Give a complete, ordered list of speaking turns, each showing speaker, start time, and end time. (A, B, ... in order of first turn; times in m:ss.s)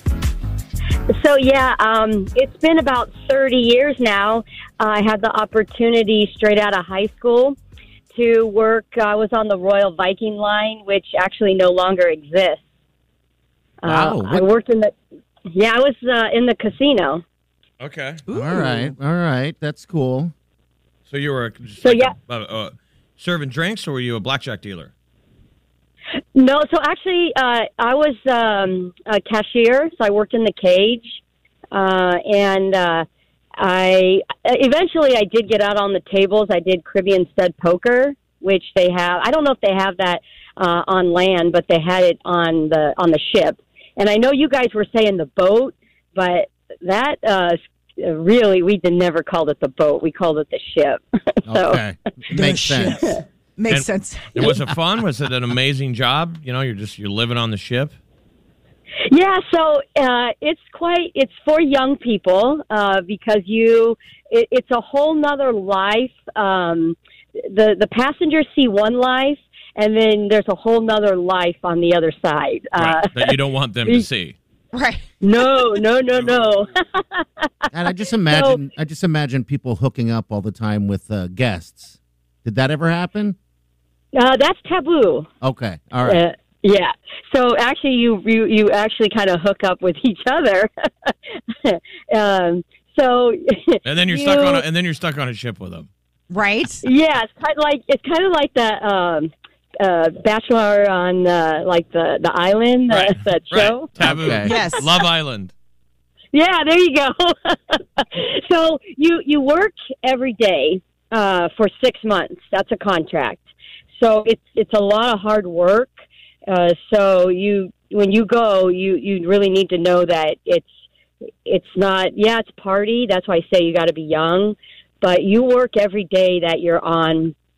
0:01.1-0:07.6 A
0:08.1-0:12.6 A
0:13.8-0:14.9 A
0:13.8-0:14.5 B
0:15.5-0:17.2 A
0:17.8-0:18.2 C
0:18.3-0:18.9 D
0:18.3-0:20.3 B
0:21.1-0:24.9 C
0:21.8-0:22.1 A
0:26.4-0:31.2 A
0:31.7-0:33.1 A
0:33.6-0:51.8 A
0:51.5-0:53.2 B
0:52.3-0:54.5 D
0:53.7-0:58.0 C
0:59.1-1:14.1 A
1:12.8-1:14.4 C
1:14.7-1:15.1 D
1:15.2-1:18.6 A
1:17.7-1:23.4 B
1:24.1-1:25.3 A
1:25.4-1:26.2 B
1:26.0-1:34.6 A
1:33.8-1:35.9 C
1:36.3-1:36.8 D
1:36.8-1:43.9 A
1:42.9-1:45.5 C
1:44.0-1:44.5 B
1:44.4-1:44.8 D
1:46.3-1:53.5 A
1:54.0-1:55.9 A
1:56.5-2:00.7 A
2:01.4-2:07.4 A